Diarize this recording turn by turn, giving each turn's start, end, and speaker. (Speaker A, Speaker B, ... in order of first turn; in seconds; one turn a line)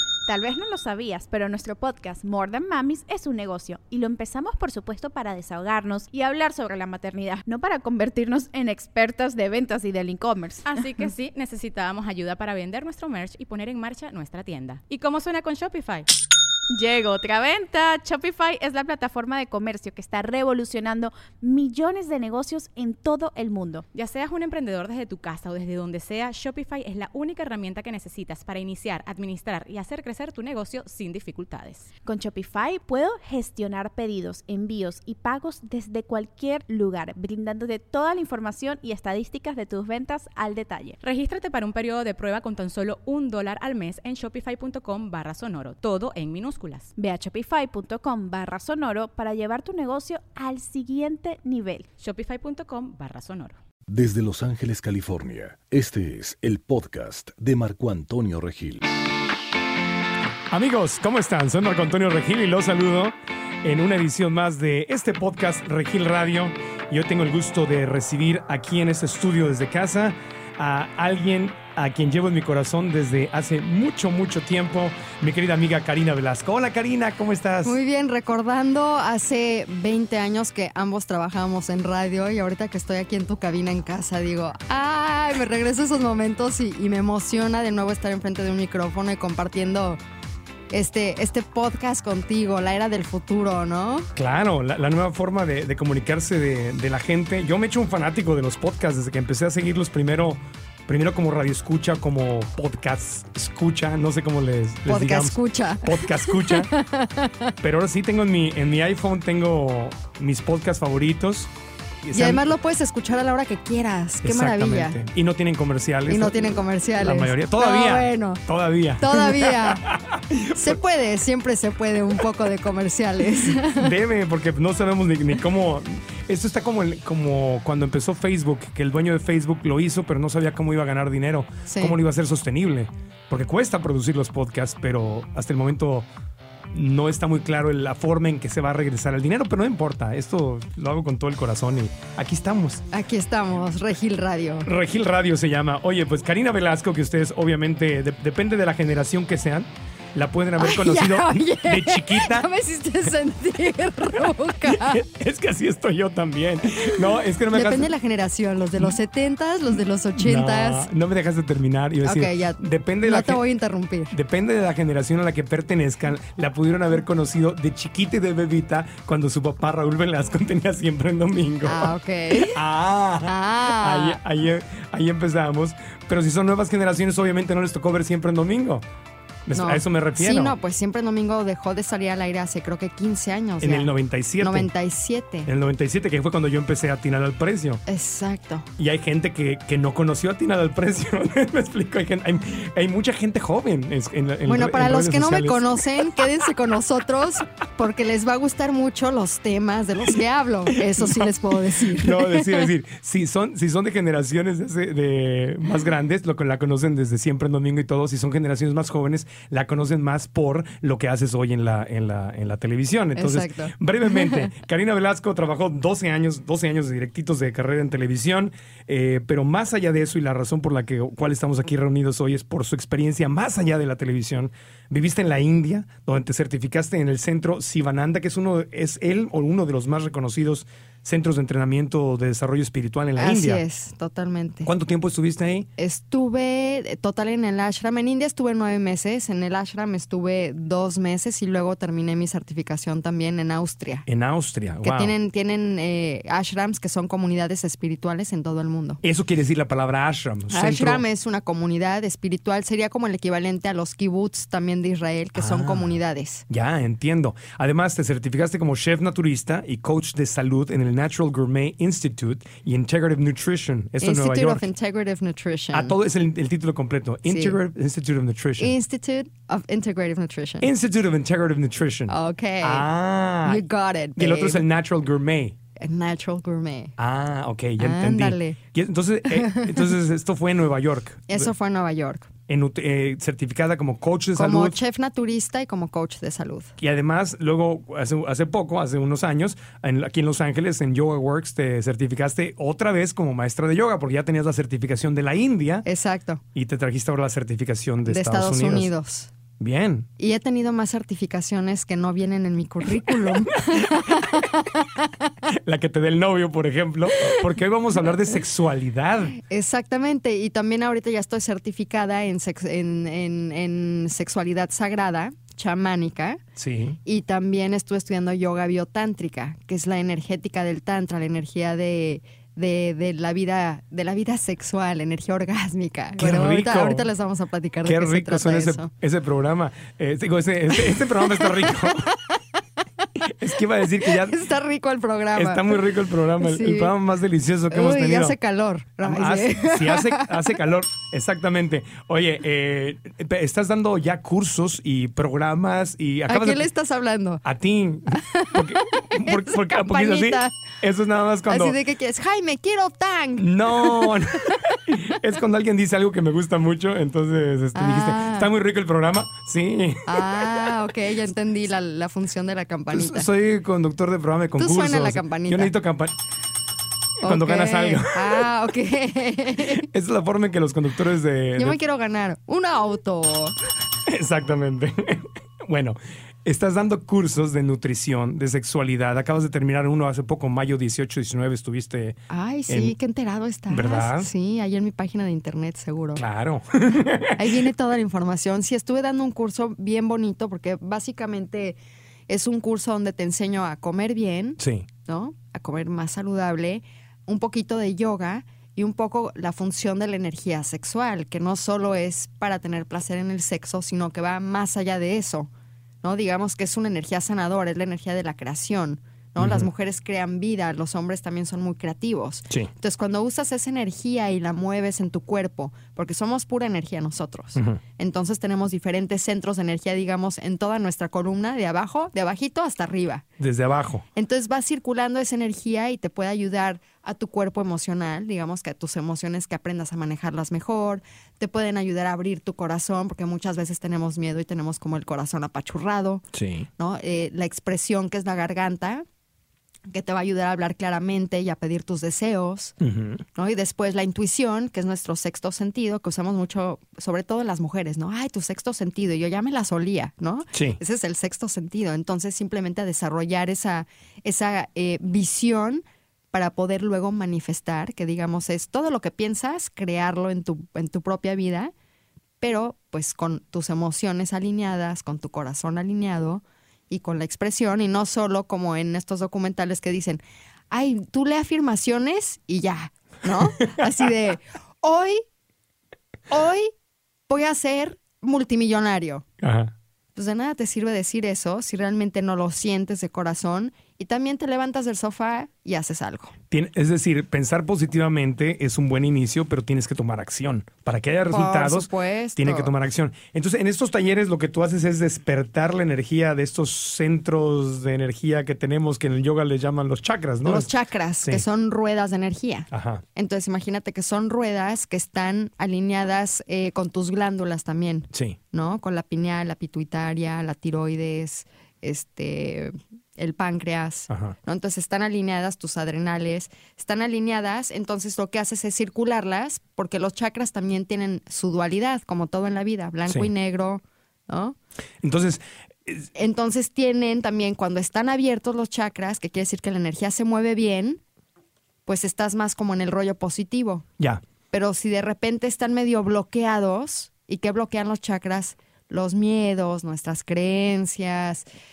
Speaker A: 0.3-10.8
Speaker B: 10.7-16.1
Speaker A: 16.7-23.8
Speaker B: 23.9-31.9
Speaker A: 32.0-41.0
Speaker B: 41.0-46.9
Speaker A: 47.0-51.9
Speaker B: 52.0-53.6
Speaker C: 53.9-58.9
Speaker D: 60.5-77.8
Speaker E: 77.6-90.0
Speaker E: 90.7-94.1
Speaker D: 94.2-106.7
Speaker E: 104.8-107.5
Speaker D: 107.6-111.5
Speaker D: 112.0-112.5
Speaker E: 112.1-115.0
Speaker D: 114.2-120.8
Speaker E: 116.1-118.4
Speaker E: 119.0-119.8
Speaker E: 120.5-123.9
Speaker D: 123.6-136.1
Speaker E: 131.7-131.9
Speaker D: 136.7-142.8
Speaker E: 142.9-144.7
Speaker D: 144.6-152.5
Speaker E: 150.6-155.0
Speaker D: 154.6-157.9
Speaker E: 157.5-160.9
Speaker D: 160.2-163.4
Speaker E: 162.0-164.1
Speaker D: 164.1-178.8
Speaker E: 171.6-172.6
Speaker E: 173.2-174.2
Speaker D: 179.5-180.6
Speaker E: 179.5-185.5
Speaker D: 183.6-184.7
Speaker D: 185.4-187.8
Speaker E: 187.8-188.7
Speaker D: 188.8-196.2
Speaker E: 194.4-202.7
Speaker D: 200.9-233.6
Speaker E: 213.2-214.5
Speaker E: 233.2-234.7
Speaker D: 234.6-235.7
Speaker E: 235.8-244.1
Speaker D: 244.1-245.1
Speaker E: 244.8-249.0
Speaker D: 249.0-251.0
Speaker E: 250.5-256.4
Speaker D: 255.3-264.6
Speaker E: 264.0-265.9
Speaker D: 265.7-268.7
Speaker E: 267.2-267.6
Speaker E: 268.6-270.7
Speaker D: 270.6-273.6
Speaker E: 272.1-272.9
Speaker E: 273.4-274.6
Speaker D: 274.1-275.6
Speaker E: 275.8-276.9
Speaker D: 277.0-281.5
Speaker E: 277.8-278.6
Speaker E: 279.3-279.9
Speaker E: 281.3-282.3
Speaker D: 282.5-284.8
Speaker E: 284.4-286.7
Speaker D: 286.8-295.9
Speaker E: 295.8-296.4
Speaker D: 296.5-298.9
Speaker E: 298.1-299.3
Speaker D: 299.6-300.1
Speaker E: 300.2-305.3
Speaker D: 303.0-304.3
Speaker D: 305.5-309.4
Speaker E: 309.4-316.4
Speaker D: 316.6-317.0
Speaker E: 317.0-328.9
Speaker D: 326.2-327.1
Speaker D: 327.8-332.1
Speaker E: 330.8-332.1
Speaker D: 333.2-334.4
Speaker E: 333.8-335.8
Speaker D: 335.3-338.4
Speaker E: 336.4-336.9
Speaker E: 337.7-340.6
Speaker D: 339.0-346.7
Speaker E: 346.3-347.4
Speaker D: 347.4-351.8
Speaker E: 348.1-350.6
Speaker E: 351.5-354.6
Speaker D: 353.4-360.7
Speaker E: 357.7-358.5
Speaker E: 360.1-363.3
Speaker D: 362.9-366.1
Speaker E: 364.6-365.7
Speaker D: 367.2-368.5
Speaker E: 367.2-369.9
Speaker D: 369.6-371.8
Speaker E: 371.6-373.5
Speaker D: 374.1-382.9
Speaker E: 382.3-386.2
Speaker D: 383.7-384.3
Speaker D: 386.1-387.6
Speaker E: 387.2-405.5
Speaker D: 394.6-394.9
Speaker E: 406.0-423.2
Speaker D: 409.4-409.7
Speaker D: 417.5-417.8
Speaker D: 423.4-424.1
Speaker E: 424.1-436.2
Speaker D: 436.3-436.7
Speaker E: 436.8-439.0
Speaker E: 439.9-442.7
Speaker D: 442.8-443.2
Speaker E: 443.3-461.7
Speaker D: 450.5-450.8
Speaker E: 462.4-475.2
Speaker E: 476.3-476.7
Speaker E: 477.3-479.2
Speaker D: 479.4-479.7
Speaker E: 480.1-486.4
Speaker D: 486.5-500.7
Speaker E: 491.3-492.7
Speaker E: 500.4-524.5
Speaker D: 502.7-503.0
Speaker D: 508.1-508.4
Speaker D: 514.1-514.4
Speaker D: 525.0-526.1
Speaker E: 526.1-531.0
Speaker E: 531.9-533.9
Speaker E: 534.5-541.4